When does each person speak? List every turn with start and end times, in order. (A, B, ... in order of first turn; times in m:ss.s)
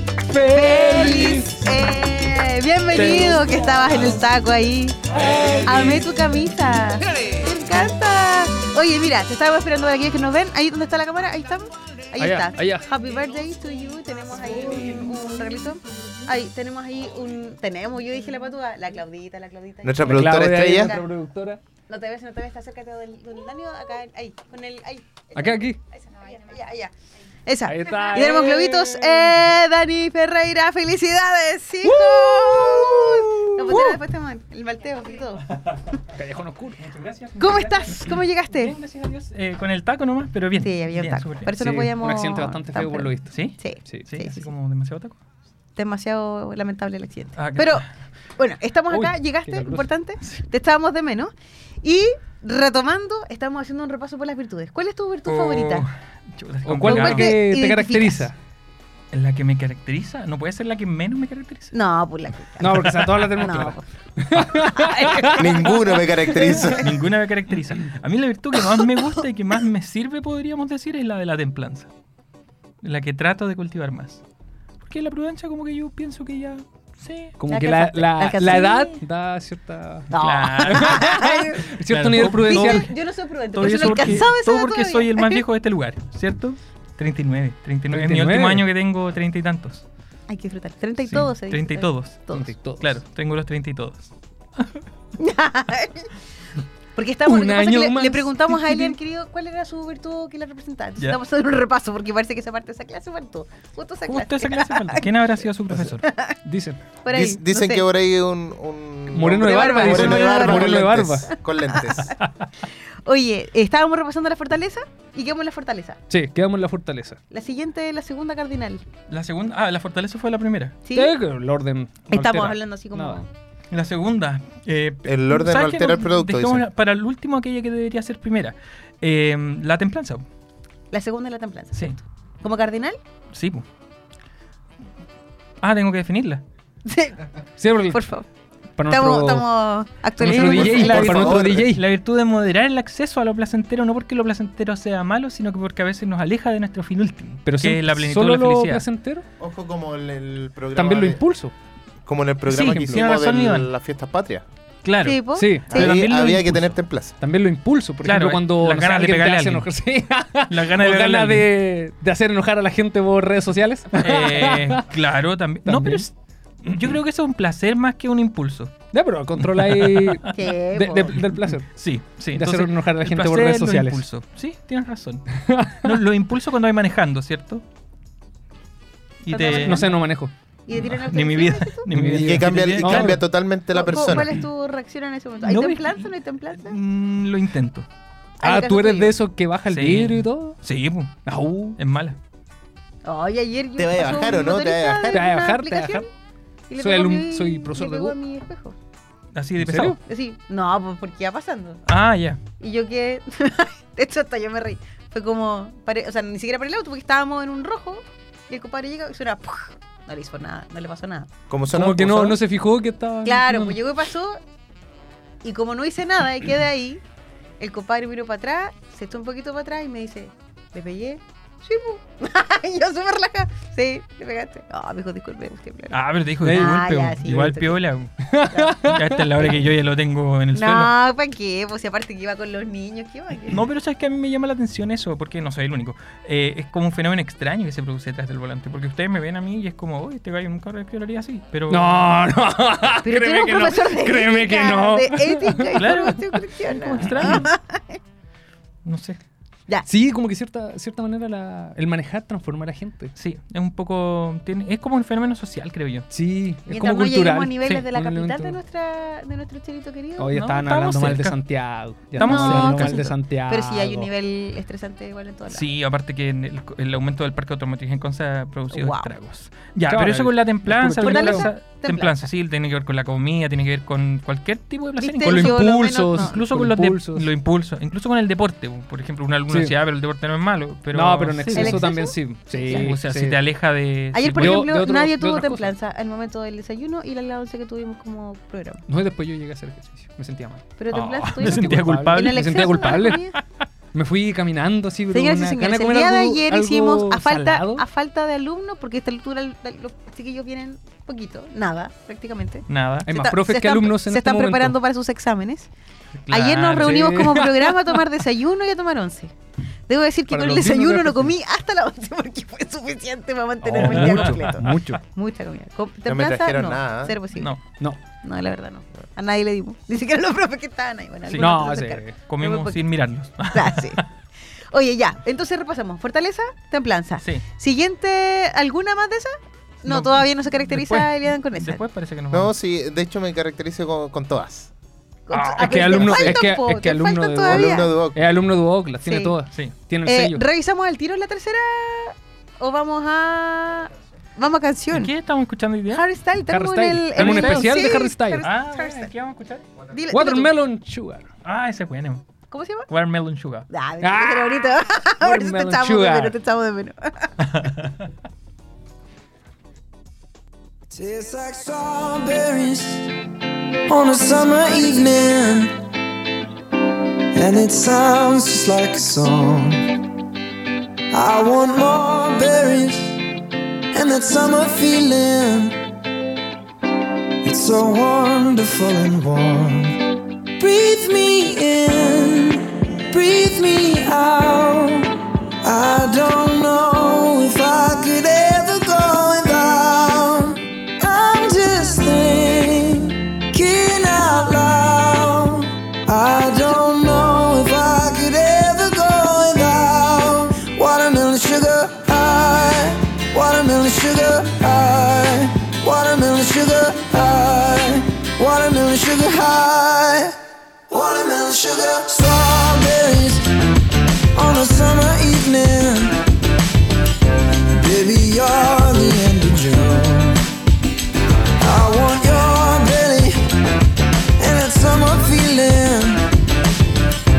0:00.2-0:01.8 A
0:00.5-0:05.0 B
0:03.0-0:03.6 A
0:05.2-0:06.0 A
0:05.6-0:21.0 B
0:12.2-0:12.9 A
0:19.8-0:21.0 C
0:20.0-0:21.6 A
0:21.9-0:26.9 B
0:25.4-0:25.8 A
0:27.5-0:35.5 B
0:27.7-0:29.6 A
0:31.8-0:34.0 A
0:36.1-0:37.0 A
0:36.9-0:41.6 D
0:37.4-0:38.8 B
0:40.6-0:44.5 B
0:41.6-0:44.1 A
0:43.3-0:45.2 D
0:45.8-0:47.9 B
0:47.4-0:47.9 D
0:48.4-0:51.3 B
0:48.9-0:49.9 A
0:51.8-0:55.9 B
0:55.3-0:57.3 D
0:56.6-0:58.4 A
0:56.8-0:58.3 B
0:59.1-1:01.7 D
1:01.7-1:03.8 B
1:02.6-1:05.6 A
1:04.4-1:06.8 B
1:05.3-1:06.9 C
1:06.8-1:11.9 D
1:12.8-1:14.2 D
1:14.8-1:17.4 D
1:17.4-1:22.9 A
1:17.5-1:19.0 B
1:20.1-1:25.4 B
1:20.1-1:21.0 D
1:21.9-1:23.0 D
1:23.5-1:29.8 D
1:27.9-1:28.7 A
1:30.3-1:32.5 B
1:31.0-1:34.8 D
1:32.3-1:33.0 A
1:35.2-1:36.1 B
1:37.0-1:45.1 B
1:37.2-1:39.0 A
1:44.1-1:46.1 D
1:46.0-1:46.4 B
1:46.4-1:46.8 A
1:47.0-1:47.9 B
1:47.1-1:52.1 C
1:49.1-1:51.3 A
1:49.4-1:52.1 B
1:53.0-1:56.0 B
1:56.1-1:57.2 A
1:57.3-1:58.8 B
1:59.1-2:00.8 D
2:00.8-2:01.2 B
2:00.9-2:03.2 A
2:02.1-2:03.3 B
2:03.7-2:10.2 D
2:05.0-2:06.7 C
2:10.9-2:13.0 B
2:13.3-2:13.6 D
2:15.6-2:16.4 D
2:16.9-2:17.2 B
2:17.6-2:18.0 A
2:17.9-2:18.3 B
2:18.8-2:19.5 A
2:18.9-2:21.4 B
2:20.2-2:21.8 A
2:20.3-2:28.9 D
2:20.7-2:21.7 C
2:27.4-2:29.2 A
2:29.4-2:31.2 C
2:30.8-2:31.5 A
2:32.0-2:34.4 C
2:32.5-2:33.7 D
2:32.5-2:33.0 A
2:34.8-2:36.8 D
2:35.0-2:35.9 B
2:35.4-2:35.8 A
2:35.7-2:37.1 C
2:37.2-2:44.9 A
2:38.0-2:39.7 D
2:40.5-2:41.5 D
2:44.0-2:48.9 D
2:45.6-2:46.1 A
2:48.9-2:54.0 A
2:49.4-2:50.4 D
2:50.3-2:51.2 B
2:51.2-2:55.3 D
2:55.4-2:56.0 A
2:55.8-2:57.6 D
2:59.2-2:59.9 D
2:59.3-3:00.0 B
2:59.4-3:00.3 A
3:00.7-3:01.9 B
3:00.7-3:03.2 D
3:01.9-3:03.2 A
3:02.1-3:04.3 C
3:03.7-3:06.8 B
3:04.0-3:04.3 A
3:05.4-3:07.9 D
3:08.4-3:09.2 B
3:08.4-3:10.6 A
3:09.7-3:11.3 D
3:11.2-3:11.8 A
3:11.8-3:12.2 D
3:13.0-3:16.1 B
3:13.8-3:15.2 C
3:15.1-3:16.0 A
3:16.7-3:18.8 B
3:16.8-3:18.2 A
3:19.3-3:20.0 D
3:19.6-3:20.0 A
3:20.0-3:21.8 B
3:21.9-3:22.4 D
3:22.6-3:31.3 B
3:31.5-3:32.4 C
3:31.7-3:33.8 A
3:33.2-3:34.4 B
3:35.4-3:37.0 B
3:37.6-3:47.8 B
3:45.9-3:48.2 D
3:46.4-3:46.8 A
3:48.2-3:49.5 A
3:48.5-3:48.9 B
3:48.8-3:50.9 D
3:50.5-3:53.6 B
3:53.5-4:02.1 D
4:01.7-4:06.1 A
4:03.0-4:08.0 B
4:05.8-4:07.5 D
4:08.8-4:09.2 D
4:09.9-4:13.1 A
4:13.2-4:16.1 D
4:16.1-4:18.6 A
4:16.7-4:20.3 B
4:20.2-4:24.1 A
4:20.3-4:21.6 D
4:22.2-4:23.0 D
4:22.2-4:25.6 B
4:25.5-4:41.9 D
4:28.7-4:29.1 B
4:29.9-4:31.5 A
4:31.0-4:32.3 B
4:35.0-4:36.4 B
4:35.2-4:37.3 A
4:39.5-4:39.8 A
4:40.9-4:43.4 A
4:41.5-4:42.9 B
4:42.7-4:44.7 D
4:44.1-4:48.8 B
4:44.3-4:45.7 A
4:48.9-4:50.8 A
4:50.8-4:53.4 B
4:50.9-4:53.0 D
4:51.4-4:53.3 A
4:53.9-4:57.8 A
4:55.1-5:05.7 B
5:02.7-5:03.1 D
5:03.1-5:04.8 A
5:06.2-5:07.2 D
5:06.3-5:09.3 B
5:06.8-5:08.0 A
5:09.9-5:17.5 B
5:10.3-5:11.3 A
5:13.6-5:15.0 A
5:13.8-5:14.8 D
5:16.1-5:17.2 C
5:17.3-5:17.6 D
5:18.2-5:22.8 B
5:21.3-5:24.0 D
5:21.4-5:22.1 A
5:23.5-5:24.0 B
5:24.7-5:31.8 B
5:27.2-5:27.4 D
5:29.8-5:32.6 D
5:32.3-5:34.7 C
5:35.3-5:37.9 B
5:35.3-5:36.3 D
5:35.6-5:40.4 A
5:37.5-5:38.2 C
5:39.0-5:39.4 B
5:40.0-5:45.1 B
5:44.9-5:46.0 D
5:45.9-5:49.1 B
5:46.5-5:48.4 A
5:47.2-5:49.6 D
5:49.9-5:50.5 B
5:50.1-5:51.3 A
5:51.4-5:52.2 D
5:52.5-5:52.9 B
5:52.9-5:53.7 D
5:53.7-5:57.3 B
5:54.0-5:56.4 A
5:57.4-5:58.0 D
6:00.9-6:03.1 E
6:03.9-6:05.8 E
6:07.3-6:09.9 E
6:11.1-6:13.2 E
6:13.9-6:15.8 E
6:17.4-6:20.0 E
6:20.6-6:25.1 E
6:25.6-6:50.4 E
6:50.9-6:53.5 E
6:54.3-6:56.2 E
6:57.7-7:00.4 E
7:01.6-7:03.4 E
7:04.4-7:06.2 E